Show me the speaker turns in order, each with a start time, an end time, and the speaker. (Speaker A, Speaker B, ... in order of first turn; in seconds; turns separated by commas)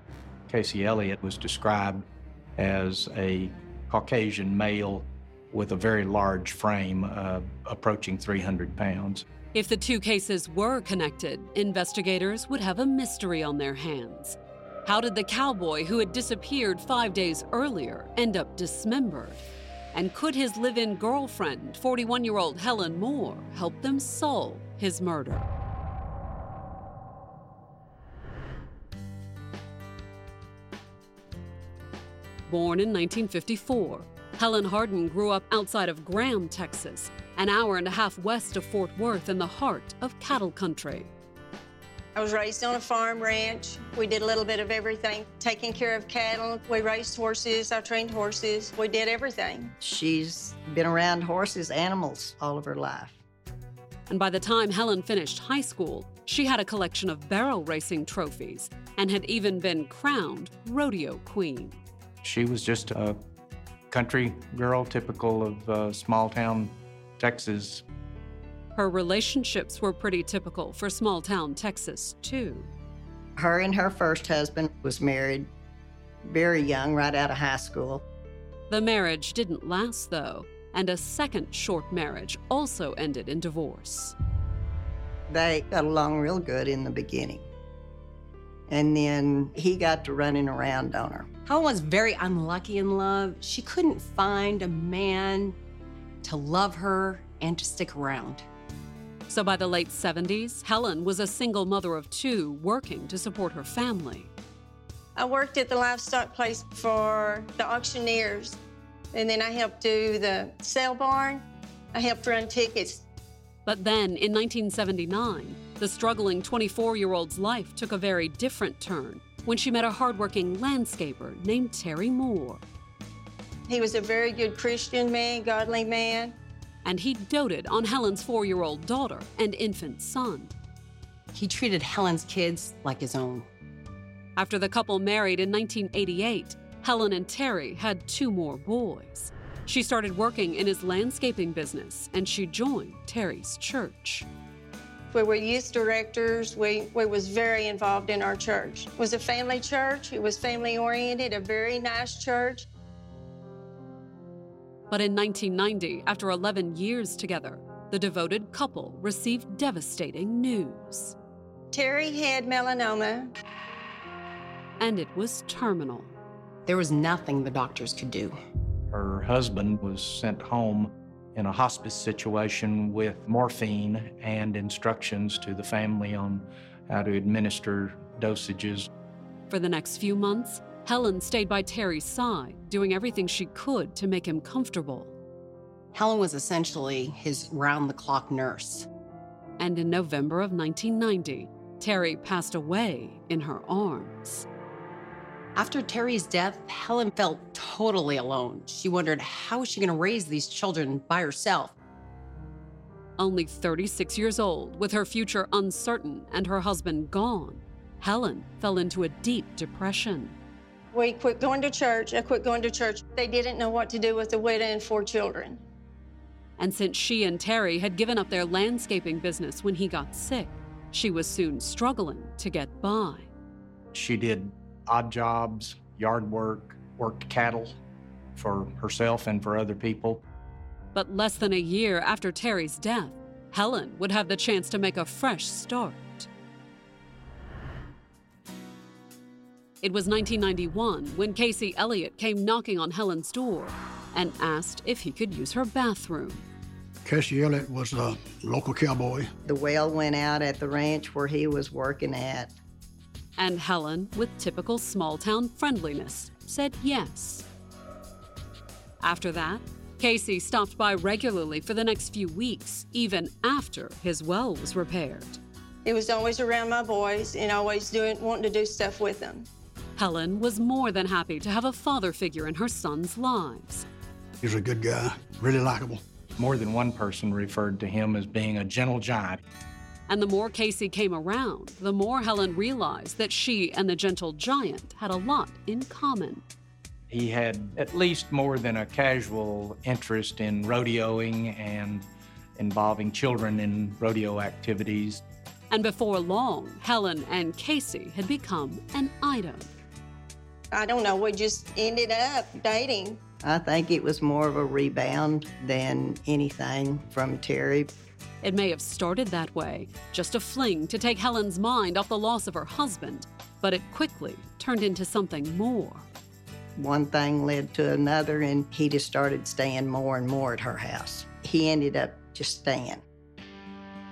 Speaker A: 0.5-2.1, Speaker A: 2.6-9.3, Speaker B: 9.5-25.5, Speaker B: 32.5-41.1, Speaker C: 42.1-49.8, Speaker D: 49.8-53.2, Speaker B: 54.1-61.8, Speaker A: 62.2-63.2, Speaker A: 63.9-67.8, Speaker B: 68.8-72.7, Speaker D: 73.4-75.5, Speaker D: 76.2-78.0, Speaker B: 78.7-84.2, Speaker D: 85.3-87.5, Speaker D: 88.7-91.3, Speaker E: 91.5-95.6, Speaker E: 96.2-98.5, Speaker B: 99.3-104.3, Speaker C: 105.2-108.6, Speaker C: 109.1-111.4, Speaker C: 111.9-113.0, Speaker B: 113.7-122.6, Speaker C: 123.7-126.3, Speaker B: 126.8-130.5, Speaker E: 131.3-133.5, Speaker B: 134.4-144.3, Speaker C: 145.1-152.7, Speaker B: 154.9-161.2, Speaker C: 161.7-163.3, Speaker B: 164.8-166.1, Speaker E: 166.7-168.4, Speaker A: 168.9-178.9, Speaker B: 179.5-185.1, Speaker E: 185.9-188.9, Speaker B: 189.6-194.5, Speaker E: 195.6-201.8, Speaker B: 203.2-210.4, Speaker C: 210.9-215.6, Speaker B: 216.6-223.3, Speaker A: 223.9-227.8, Speaker A: 228.4-230.2, Speaker B: 230.9-236.3, Speaker B: 239.8-246.4, Speaker F: 247.0-249.3, Speaker D: 249.4-252.5, Speaker B: 253.4-257.5, Speaker B: 259.0-265.4, Speaker C: 265.9-269.5, Speaker B: 270.0-273.9, Speaker F: 274.4-276.0, Speaker A: 276.4-279.4, Speaker B: 280.1-286.4, Speaker A: 287.1-295.2, Speaker B: 295.7-299.7, Speaker C: 300.7-303.2, Speaker D: 303.4-307.9, Speaker B: 308.4-316.1, Speaker D: 316.8-323.0